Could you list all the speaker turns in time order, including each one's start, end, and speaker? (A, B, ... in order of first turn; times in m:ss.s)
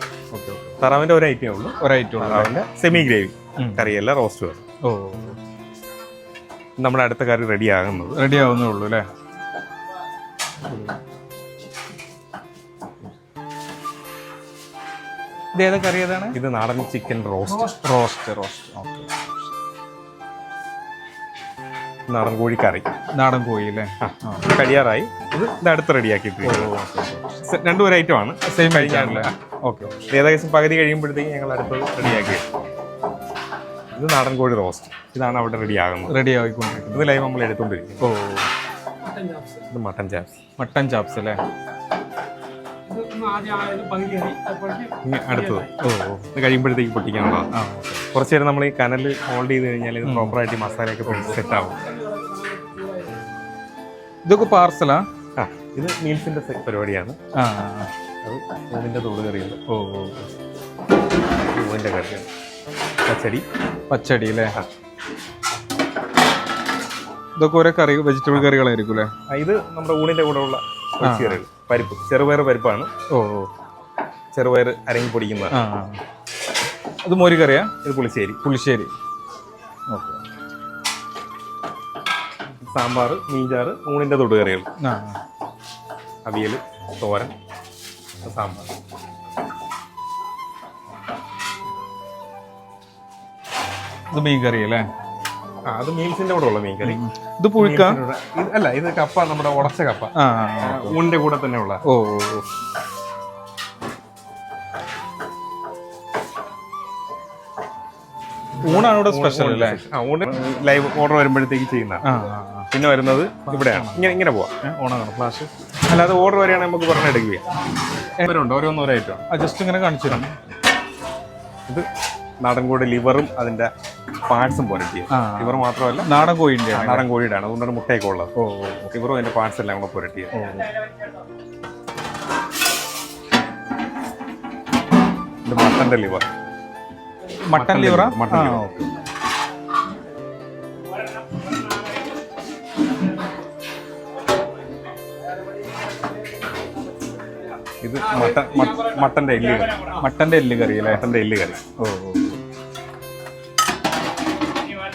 0:00.3-0:00.8 A
0:00.8-0:04.6 B
0:01.8-0:02.5 A
0:03.6-0:03.9 A
0:04.9-0:05.4 A
0:06.8-0:08.2 B
0:08.2-0:09.0 A
0:15.6-0:16.4 A
0:16.3-0:17.7 B
0:17.5-0:19.1 A
0:22.1-0:22.8 B
0:23.2-0:24.5 A
0:24.0-0:26.7 B
0:26.4-0:27.4 A
0:27.4-0:29.4 B
0:28.5-0:30.0 A
0:30.0-0:32.5 B
0:32.1-0:32.4 A
0:33.9-0:36.2 B
0:36.1-0:37.1 A
0:36.9-0:38.1 B
0:38.0-0:38.5 A
0:39.5-0:40.4 B
0:40.6-0:41.4 A
0:44.9-0:45.7 B
0:45.7-0:46.2 A
0:46.3-0:47.5 B
0:47.5-0:48.1 A
0:48.1-0:51.8 B
0:50.0-0:50.4 A
0:51.1-0:51.4 A
0:54.2-0:55.0 A
0:55.4-0:57.2 B
0:57.4-0:57.9 A
0:58.2-0:59.6 B
0:59.7-1:00.3 A
1:01.5-1:02.3 B
1:03.1-1:03.4 B
1:03.9-1:04.5 A
1:07.4-1:09.1 A
1:09.3-1:12.9 B
1:11.0-1:11.4 A
1:13.1-1:13.5 A
1:14.3-1:15.6 B
1:15.5-1:16.0 A
1:17.0-1:17.7 A
1:17.8-1:18.4 B
1:18.4-1:18.9 A
1:19.9-1:20.2 A
1:22.7-1:24.7 B
1:24.8-1:25.2 A
1:26.2-1:27.3 B
1:28.2-1:28.7 B
1:34.1-1:34.8 A
1:35.7-1:37.0 B
1:36.8-1:38.0 A
1:37.6-1:41.8 B
1:40.2-1:41.0 A
1:41.9-1:42.5 A
1:48.6-1:52.0 B
1:48.7-1:49.8 A
1:52.0-1:52.7 A
1:52.7-1:54.5 B
1:53.4-1:54.1 A
1:54.6-1:55.5 A
1:55.9-1:57.5 B
1:58.2-1:59.2 B
1:59.3-2:00.3 A
2:02.4-2:03.7 B
2:04.3-2:06.1 B
2:05.1-2:07.0 A
2:06.7-2:08.3 B
2:08.4-2:08.9 A
2:08.9-2:10.6 B
2:10.3-2:10.7 A
2:15.4-2:16.3 B
2:17.5-2:18.8 A
2:17.5-2:18.7 B
2:27.8-2:30.0 B
2:30.0-2:31.1 A
2:30.9-2:31.6 B
2:31.8-2:32.4 A